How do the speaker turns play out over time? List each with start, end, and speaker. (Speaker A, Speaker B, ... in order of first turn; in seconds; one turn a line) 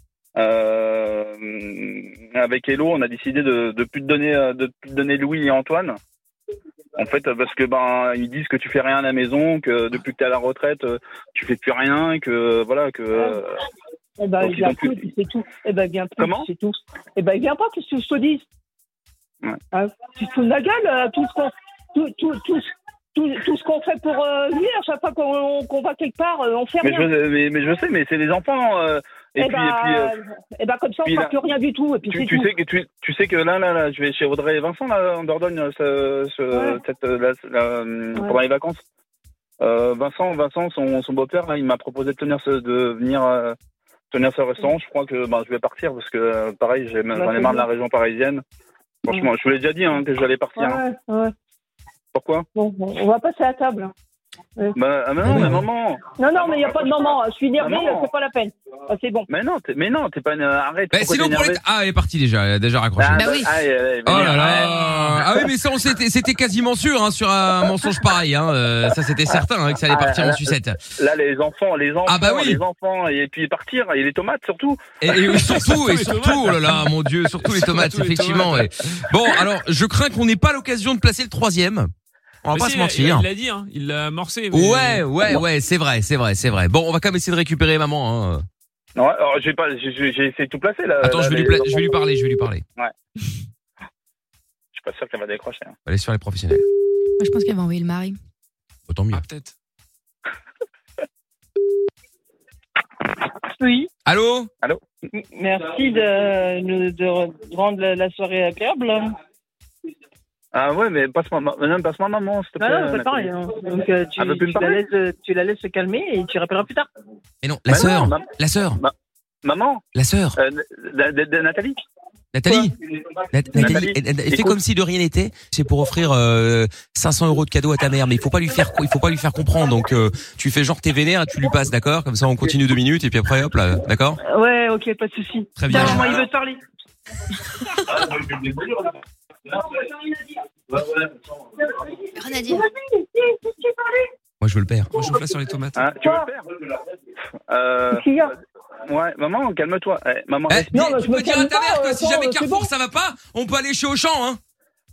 Speaker A: 0.3-6.0
Speaker A: 7.0-13.5
Speaker B: 13.1-13.4
Speaker B: 14.2-18.4
Speaker A: 14.4-15.1
Speaker A: 16.2-16.5
Speaker B: 19.7-27.1
Speaker A: 26.8-30.1
Speaker B: 29.4-32.5
Speaker A: 31.0-31.3
Speaker A: 32.1-38.8
Speaker B: 36.5-36.8
Speaker A: 39.6-43.5
Speaker A: 44.1-48.4
Speaker B: 47.1-47.7
Speaker A: 49.0-50.8
Speaker B: 50.5-51.3
Speaker A: 52.1-52.5
Speaker B: 52.5-53.9
Speaker A: 54.8-58.1
Speaker C: 55.2-55.6
Speaker B: 56.1-59.3
Speaker A: 59.3-61.6
Speaker C: 60.9-63.2
Speaker A: 63.0-64.8
Speaker D: 63.1-63.6
Speaker C: 64.0-70.8
Speaker E: 64.2-65.2
Speaker A: 69.9-74.8
Speaker C: 72.0-72.6
Speaker C: 75.0-81.9
Speaker E: 75.2-78.7
Speaker C: 82.4-83.3
Speaker E: 82.5-85.3
Speaker C: 84.5-88.4
Speaker A: 88.9-91.9
Speaker C: 91.0-92.6
Speaker A: 94.7-95.7
Speaker C: 95.8-96.6
Speaker D: 97.2-98.2
Speaker C: 98.9-99.2
Speaker E: 99.1-99.5
Speaker B: 103.6-103.9
Speaker C: 104.0-104.5
Speaker B: 105.2-109.0
Speaker F: 105.3-109.1
Speaker A: 110.5-113.3
Speaker B: 112.6-114.1
Speaker F: 113.0-116.9
Speaker A: 114.2-114.9
Speaker B: 115.1-116.7
Speaker C: 117.4-118.8
Speaker A: 117.7-118.2
Speaker A: 118.8-119.8
Speaker C: 119.9-120.3
Speaker A: 120.4-121.8
Speaker C: 122.3-122.7
Speaker C: 123.3-134.2
Speaker A: 123.5-124.6
Speaker B: 134.2-136.6
Speaker C: 135.6-136.1
Speaker D: 135.7-136.1
Speaker A: 135.9-136.2
Speaker A: 138.0-138.7
Speaker D: 142.2-142.6
Speaker B: 142.5-144.1
Speaker C: 144.4-144.9
Speaker E: 144.9-145.8
Speaker A: 145.7-146.4
Speaker B: 146.0-146.3
Speaker A: 147.5-148.1
Speaker B: 147.9-148.3
Speaker A: 148.9-150.7
Speaker C: 150.5-154.4
Speaker B: 150.7-152.7